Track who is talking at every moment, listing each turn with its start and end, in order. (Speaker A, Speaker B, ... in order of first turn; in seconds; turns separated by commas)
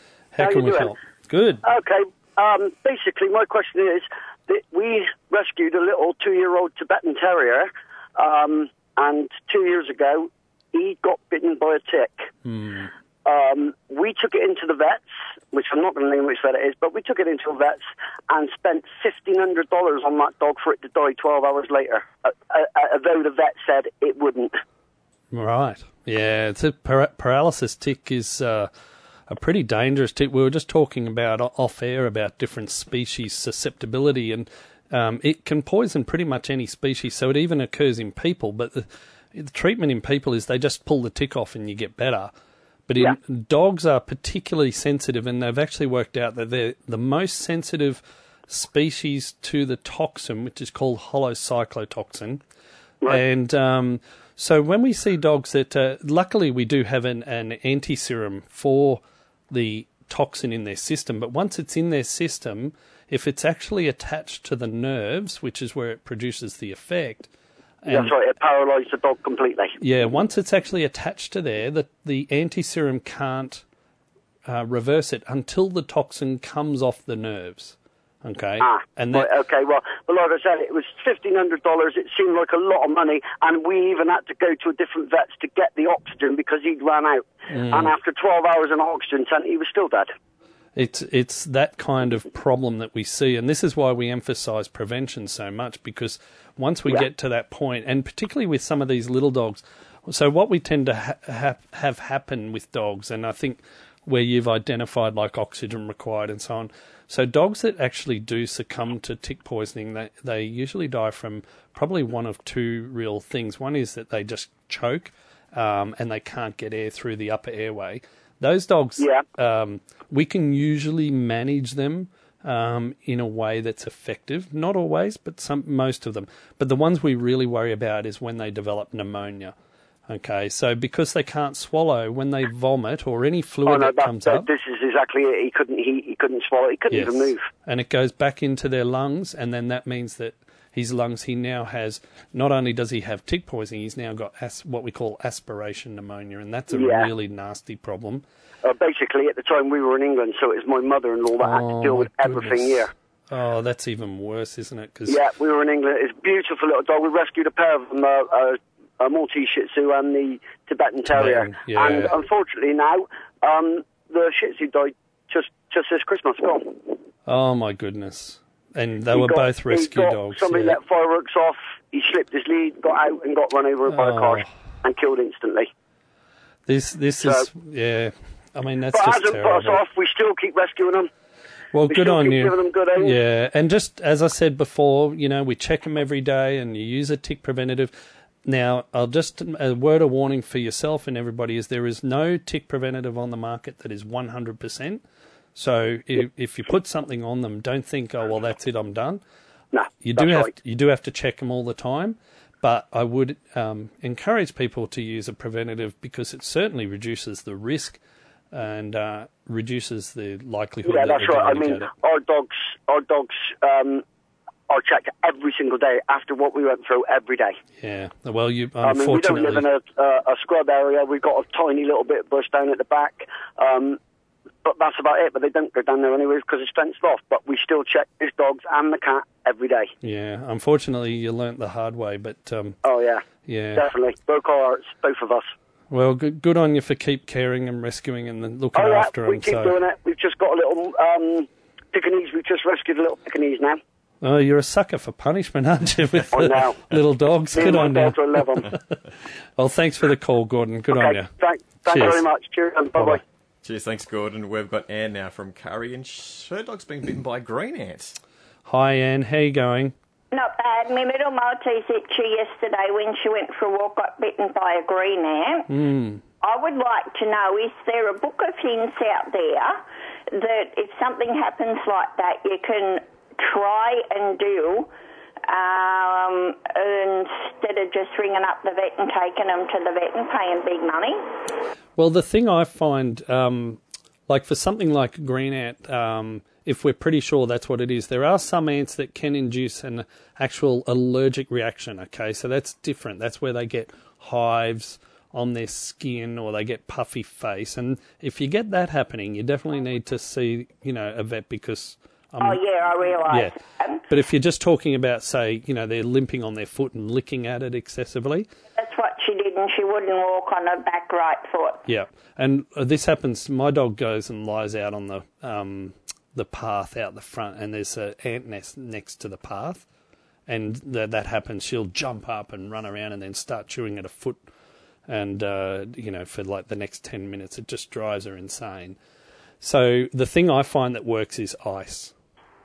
Speaker A: 0.3-1.6, Speaker B: 0.4-0.9, Speaker B: 1.6-12.3, Speaker A: 12.4-12.9, Speaker B: 13.2-24.5, Speaker A: 25.3-28.7, Speaker A: 29.3-42.3, Speaker A: 42.9-52.4, Speaker A: 53.0-67.3, Speaker A: 67.8-68.1, Speaker B: 67.9-69.8, Speaker A: 69.8-73.6, Speaker A: 74.5-79.3, Speaker B: 78.6-90.1, Speaker A: 87.5-87.9, Speaker A: 90.8-129.5, Speaker B: 119.0-119.2, Speaker A: 130.1-134.5, Speaker B: 133.7-137.5, Speaker A: 136.9-148.2, Speaker B: 146.7-147.1, Speaker B: 148.6-152.9, Speaker A: 151.4-155.2, Speaker B: 155.1-166.9, Speaker A: 161.0-162.1, Speaker A: 167.2-170.8, Speaker B: 169.1-175.7, Speaker A: 173.9-174.4, Speaker A: 176.7-179.8, Speaker B: 177.2-177.5, Speaker B: 178.9-181.1, Speaker A: 181.7-187.9, Speaker B: 181.9-183.2, Speaker A: 188.4-195.0, Speaker A: 195.5-199.2, Speaker B: 199.7-200.5, Speaker A: 200.0-208.0, Speaker A: 208.5-211.9, Speaker B: 210.8-214.0, Speaker B: 214.7-217.6, Speaker A: 217.8-219.6, Speaker B: 218.8-224.0, Speaker B: 224.6-229.9, Speaker A: 230.0-232.8, Speaker B: 232.8-235.5, Speaker A: 233.4-233.9, Speaker A: 235.9-239.8, Speaker B: 238.7-243.8, Speaker A: 244.2-248.9, Speaker B: 246.3-246.8, Speaker B: 247.5-248.7, Speaker A: 249.6-252.2, Speaker B: 250.9-253.2, Speaker C: 253.6-258.2, Speaker A: 258.6-259.9, Speaker D: 260.3-265.7, Speaker A: 265.7-266.2, Speaker D: 266.4-274.9, Speaker D: 275.5-281.3, Speaker A: 282.0-302.6, Speaker D: 302.4-304.0, Speaker A: 303.2-303.5, Speaker A: 304.1-308.5, Speaker D: 308.8-311.8, Speaker A: 311.9-319.9, Speaker A: 320.5-324.4, Speaker A: 325.1-329.0, Speaker A: 329.6-332.1